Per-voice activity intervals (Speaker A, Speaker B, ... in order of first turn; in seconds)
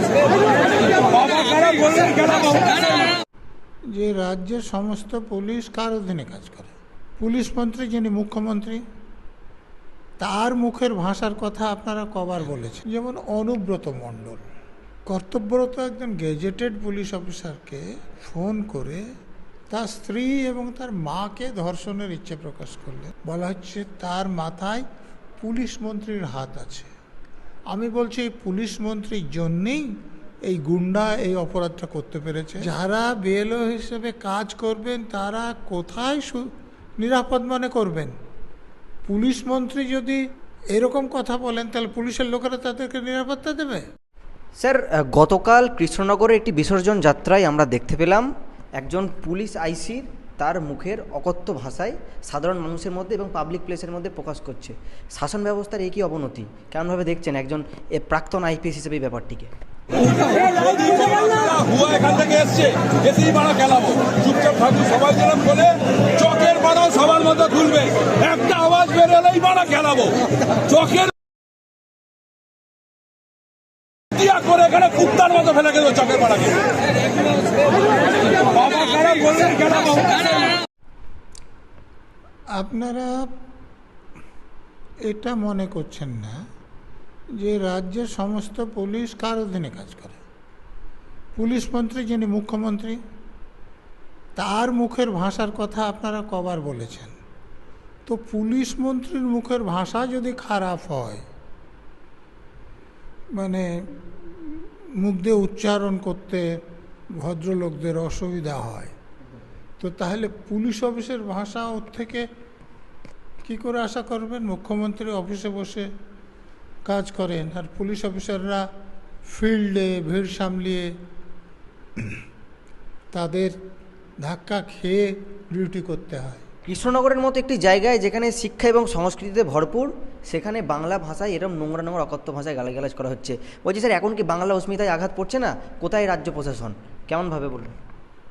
Speaker A: 1.1-3.0, 60.2-71.1, 74.2-76.7, 78.5-80.4
Speaker B: 3.9-8.8, 10.2-14.4, 15.1-19.1, 19.7-24.9, 25.4-26.9, 27.7-29.9, 30.5-38.2, 39.1-40.2, 40.8-43.9, 82.6-83.3, 85.1-86.4, 87.4-90.2, 91.4-93.0, 94.4-97.2, 98.1-101.2, 103.3-108.9, 109.8-112.3, 113.4-115.9, 116.8-118.7, 119.3-120.9, 123.1-123.5, 124.2-126.4
Speaker C: 44.6-59.5, 126.7-137.8